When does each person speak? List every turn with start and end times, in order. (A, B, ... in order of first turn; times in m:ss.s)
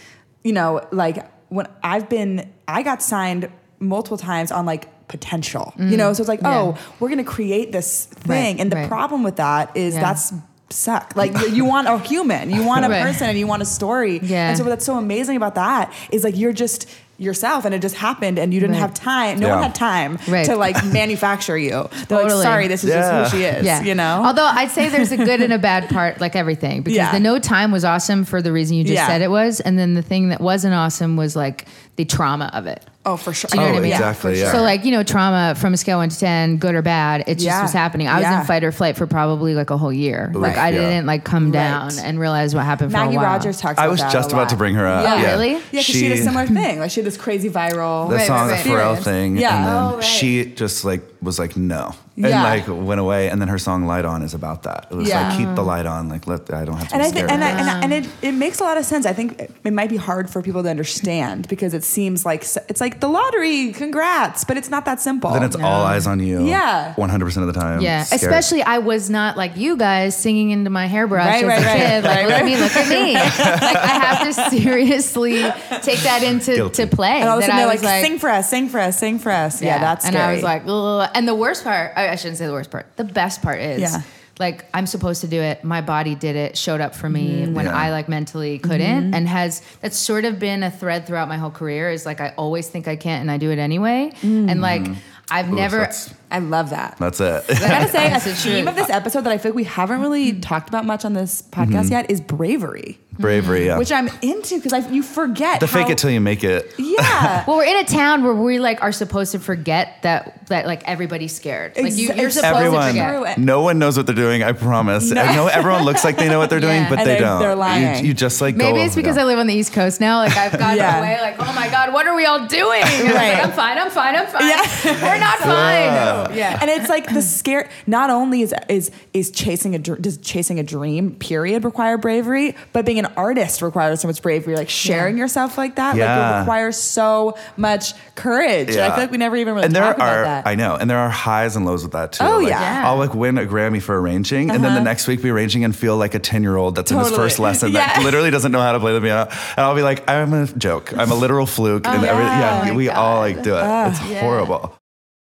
0:00.4-0:25.5 A
0:05.8-0:06.8 B
0:08.2-0:09.0 B
0:09.9-0:10.2 B
0:12.8-0:13.3 B
0:14.2-0:14.6 B
0:18.6-0:18.9 B
0:19.4-0:19.7 C
0:20.3-0:20.6 B
0:22.1-0:22.7 B
0:22.8-0:23.6 C
0:23.6-0:32.8 B
0:26.8-0:27.2 A
0:28.8-0:29.2 A
0:33.0-0:34.8 A
0:33.5-0:43.5 B
0:33.5-0:34.7 C
0:37.3-0:38.5 A
0:40.3-0:41.0 C
0:40.3-0:40.6 A
0:41.4-0:42.0 A
0:42.8-0:50.4 A
0:43.8-0:46.4 C
0:45.0-0:45.7 B
0:48.0-0:49.1 B
0:48.1-0:57.7 C
0:52.2-0:52.7 A
0:55.0-0:55.4 A
0:55.0-0:55.7 B
0:56.9-1:05.5 A
0:57.1-0:58.0 B
1:05.3-1:08.4 C
1:05.5-1:06.1 B
1:06.4-1:07.0 A
1:07.7-1:18.1 B
1:11.2-1:14.5 A
1:11.6-1:12.4 C
1:13.2-1:13.8 C
1:15.4-1:15.7 A
1:16.4-1:16.9 C
1:17.2-1:20.5 A
1:19.6-1:36.0 B
1:23.8-1:24.0 A
1:27.1-1:27.7 A
1:27.5-1:27.9 C
1:28.6-1:29.2 A
1:34.2-1:34.8 A
1:34.6-1:35.0 C
1:35.5-1:36.1 C
1:36.3-1:37.0 A
1:37.0-1:38.3 C
1:37.5-1:38.8 B
1:37.5-1:46.0 A
1:41.6-1:42.0 C
1:43.2-1:43.7 B
1:43.2-1:43.9 C
1:45.6-1:47.4 C
1:46.8-1:47.5 A
1:47.4-1:53.2 B
1:51.8-1:53.4 A
1:52.4-1:59.2 C
1:55.0-1:58.1 A
1:56.5-1:57.0 B
1:58.5-2:06.6 B
2:00.6-2:01.2 A
2:02.8-2:03.6 A
2:04.4-2:20.5 A
2:05.4-2:06.6 C
2:14.8-2:15.1 B
2:15.9-2:16.5 C
2:18.7-2:34.7 C
2:22.2-2:22.9 A
2:22.5-2:23.1 B
2:24.5-2:24.9 A
2:26.8-2:28.3 A
2:31.8-2:34.5 B
2:31.9-2:32.8 A
2:33.6-2:34.1 A